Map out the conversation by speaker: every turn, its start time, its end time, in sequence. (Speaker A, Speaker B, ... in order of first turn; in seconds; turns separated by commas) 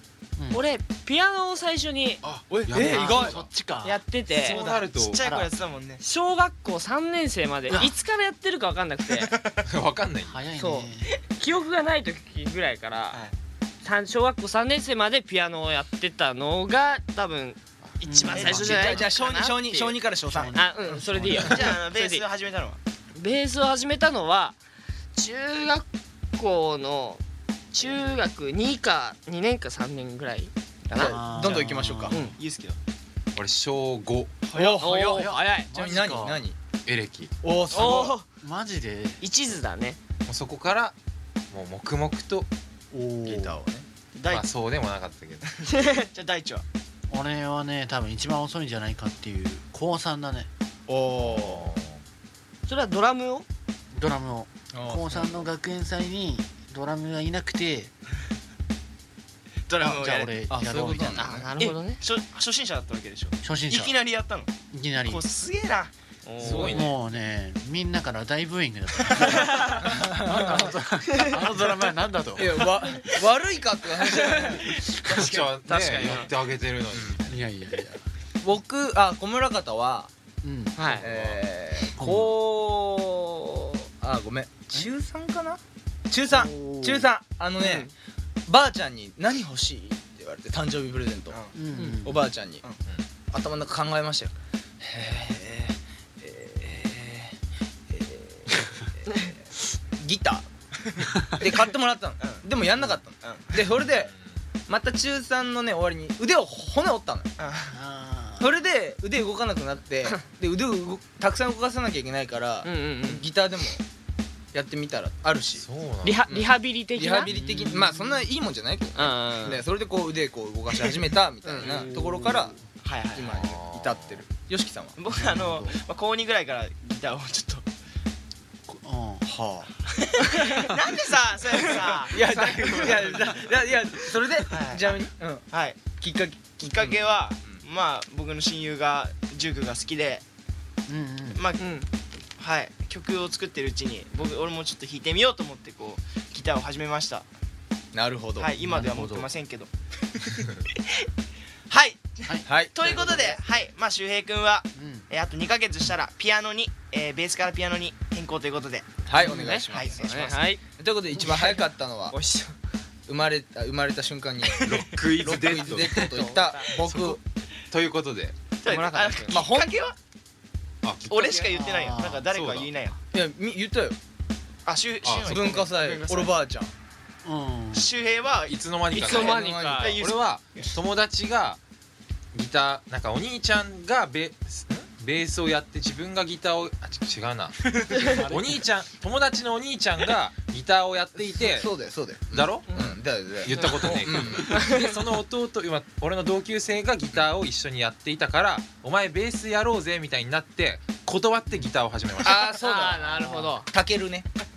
Speaker A: 0.4-0.6, Speaker B: 0.5-2.2, Speaker C: 2.2-3.5, Speaker D: 2.5-3.4, Speaker A: 2.8-4.0, Speaker B: 3.8-4.6, Speaker C: 4.4-5.3, Speaker E: 4.4-6.0, Speaker A: 5.2-5.5, Speaker B: 6.0-9.3, Speaker A: 7.7-8.0, Speaker E: 9.2-9.6, Speaker C: 9.6-10.4, Speaker A: 10.2-11.1, Speaker B: 10.5-13.2, Speaker B: 13.8-20.0, Speaker A: 18.0-18.6, Speaker E: 18.0-19.1, Speaker C: 18.4-19.1, Speaker D: 18.4-20.6, Speaker A: 20.3-21.7, Speaker B: 20.5-22.2, Speaker E: 21.4-22.8, Speaker B: 23.1-24.6, Speaker B: 25.1-27.2, Speaker B: 27.7-31.2, Speaker D: 30.9-32.2, Speaker A: 30.9-32.2, Speaker B: 32.1-32.4, Speaker E: 32.2-32.8, Speaker C: 33.4-34.5, Speaker E: 34.5-34.8, Speaker D: 34.5-36.6, Speaker B: 34.8-35.8, Speaker A: 35.1-36.4, Speaker C: 36.9-37.3, Speaker D: 37.4-38.2, Speaker B: 37.7-38.3, Speaker A: 38.4-39.2, Speaker B: 39.2-40.0, Speaker C: 40.3-41.0, Speaker C: 41.5-42.5, Speaker A: 42.9-43.6, Speaker D: 43.3-43.9, Speaker E: 44.1-44.5, Speaker C: 44.3-45.5, Speaker E: 45.6-46.6, Speaker A: 47.1-50.5, Speaker D: 50.9-51.8, Speaker C: 51.2-52.0, Speaker B: 52.7-53.5, Speaker A: 53.9-57.9, Speaker D: 54.7-55.3, Speaker E: 59.7-60.3, Speaker A: 59.8-61.5, Speaker D: 60.5-61.5, Speaker B: 61.1-62.0, Speaker E: 61.6-64.5, Speaker A: 63.4-64.0, Speaker A: 64.7-65.2, Speaker E: 65.0-65.9, Speaker B: 66.3-66.7, Speaker C: 66.4-67.0, Speaker D: 66.4-66.9, Speaker A: 66.7-73.0, Speaker B: 69.3-69.7, Speaker D: 69.8-70.7, Speaker D: 72.4-75.4, Speaker B: 74.1-74.7, Speaker A: 74.6-75.5, Speaker C: 75.0-77.4, Speaker B: 75.7-76.3, Speaker D: 76.9-77.2, Speaker A: 77.2-78.1, Speaker D: 78.4-80.1, Speaker A: 80.4-81.0, Speaker B: 80.8-81.0, Speaker C: 80.9-81.4, Speaker D: 81.0-83.2, Speaker A: 81.9-82.3, Speaker D: 84.0-87.9, Speaker A: 86.3-87.1, Speaker B: 87.6-87.9, Speaker D: 88.5-91.4, Speaker E: 91.3-91.6, Speaker A: 91.5-92.2, Speaker B: 91.7-92.0, Speaker D: 92.0-92.7, Speaker C: 92.8-93.1, Speaker D: 93.3-97.4, Speaker D: 97.9-99.4, Speaker D: 100.0-100.5, Speaker D: 101.4-104.1, Speaker E: 103.2-103.6, Speaker C: 103.8-104.5, Speaker D: 104.7-107.3, Speaker E: 107.4-107.8, Speaker A: 107.7-108.5, Speaker D: 108.4-113.8, Speaker B: 112.6-113.2, Speaker D: 114.5-115.7, Speaker C: 115.6-116.2, Speaker B: 116.0-117.4, Speaker D: 116.3-122.6, Speaker A: 117.3-118.2, Speaker B: 119.0-119.6, Speaker B: 121.5-122.0, Speaker A: 121.7-122.7, Speaker E: 122.8-123.3, Speaker D: 123.1-125.0, Speaker C: 123.2-124.2, Speaker E: 125.0-127.7, Speaker A: 125.2-125.8, Speaker A: 128.7-129.3, Speaker D: 129.2-129.7, Speaker E: 130.0-133.3, Speaker D: 131.9-137.6, Speaker C: 132.4-133.2, Speaker E: 134.5-135.8, Speaker E: 136.6-140.2, Speaker A: 140.9-141.4, Speaker E: 141.3-141.7, Speaker B: 141.6-141.9, Speaker E: 142.4-147.3, Speaker D: 147.9-148.5, Speaker E: 148.4-151.1, Speaker A: 148.6-149.3, Speaker E: 151.7-160.4, Speaker D: 152.5-153.2, Speaker A: 154.8-155.1, Speaker D: 159.1-160.0, Speaker B: 159.2-160.6, Speaker D: 160.7-162.2, Speaker B: 161.3-162.6, Speaker D: 163.1-167.2, Speaker C: 164.6-166.2, Speaker B: 166.0-166.9, Speaker C: 166.9-167.2, Speaker C: 167.7-168.4, Speaker E: 168.6-170.0, Speaker B: 168.7-169.5, Speaker D: 169.3-169.7, Speaker C: 170.8-171.6, Speaker E: 171.1-173.0, Speaker A: 171.5-172.2, Speaker C: 172.3-172.7, Speaker D: 173.1-174.0, Speaker E: 174.7-176.3, Speaker C: 175.0-175.6, Speaker D: 175.2-176.7, Speaker A: 177.2-177.9, Speaker E: 177.7-180.8, Speaker C: 178.5-179.4, Speaker B: 178.9-180.0, Speaker D: 179.2-180.0, Speaker C: 179.9-181.6, Speaker C: 182.3-191.7, Speaker B: 187.9-188.2, Speaker A: 188.0-188.5, Speaker D: 191.3-194.8, Speaker C: 192.3-202.4, Speaker B: 192.7-194.9, Speaker D: 202.2-204.3, Speaker B: 202.3-203.7, Speaker A: 203.2-203.6